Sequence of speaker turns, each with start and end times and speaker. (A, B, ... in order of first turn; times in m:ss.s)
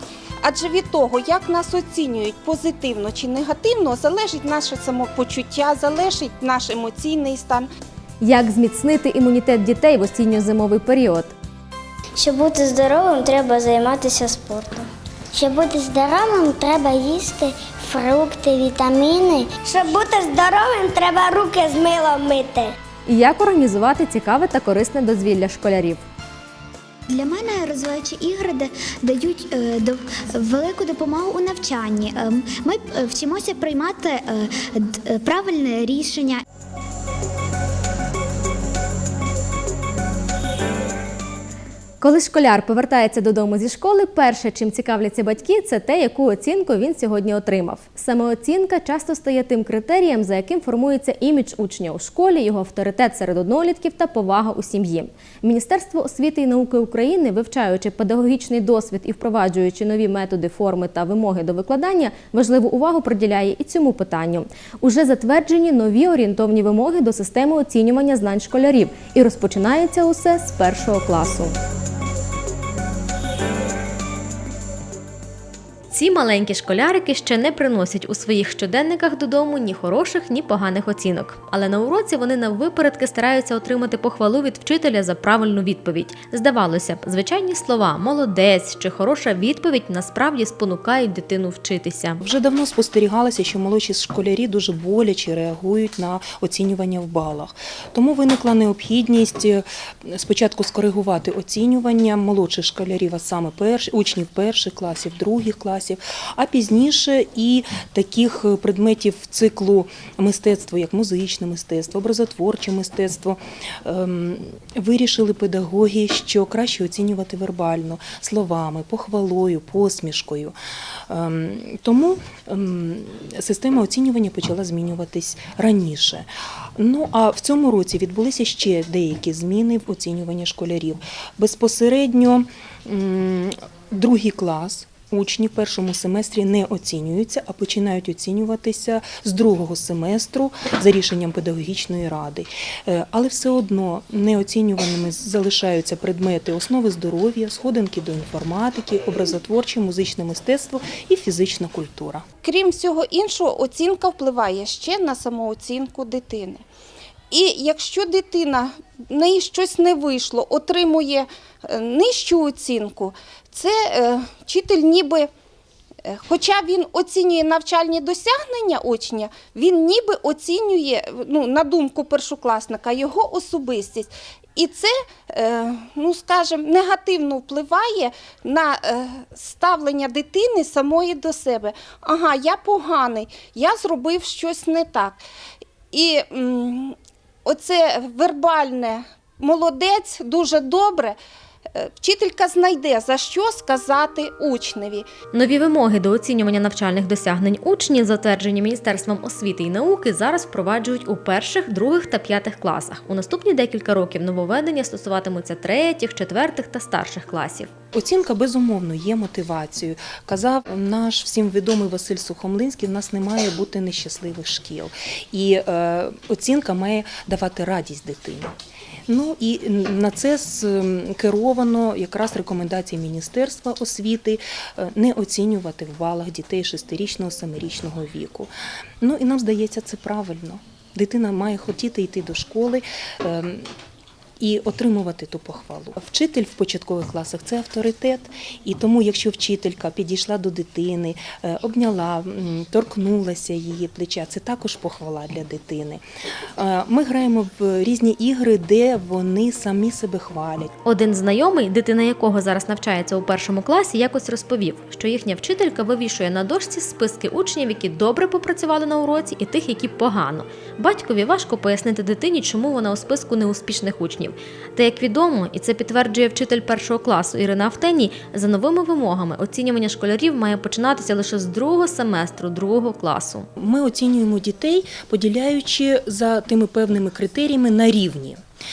0:00.4-0:07.7 A
0:08.2-0:11.3 B
0:12.2-0:22.7 C
0:23.1-0:26.0 B
0:27.1-0:36.4 D
0:42.0-1:11.5 B
1:15.9-1:32.2 B
1:32.2-2:00.6 E
2:01.1-2:32.2 E
2:32.4-2:36.6 A
2:37.3-2:45.3 A
2:46.0-3:05.2 A
3:05.9-3:11.2 A
3:11.7-3:15.1 A
3:15.3-3:27.7 B
3:27.9-3:38.5 E
3:39.1-3:53.7 E
3:54.4-4:06.0 E
4:06.6-4:10.7 E
4:10.8-4:33.5 B
4:33.6-4:38.4 E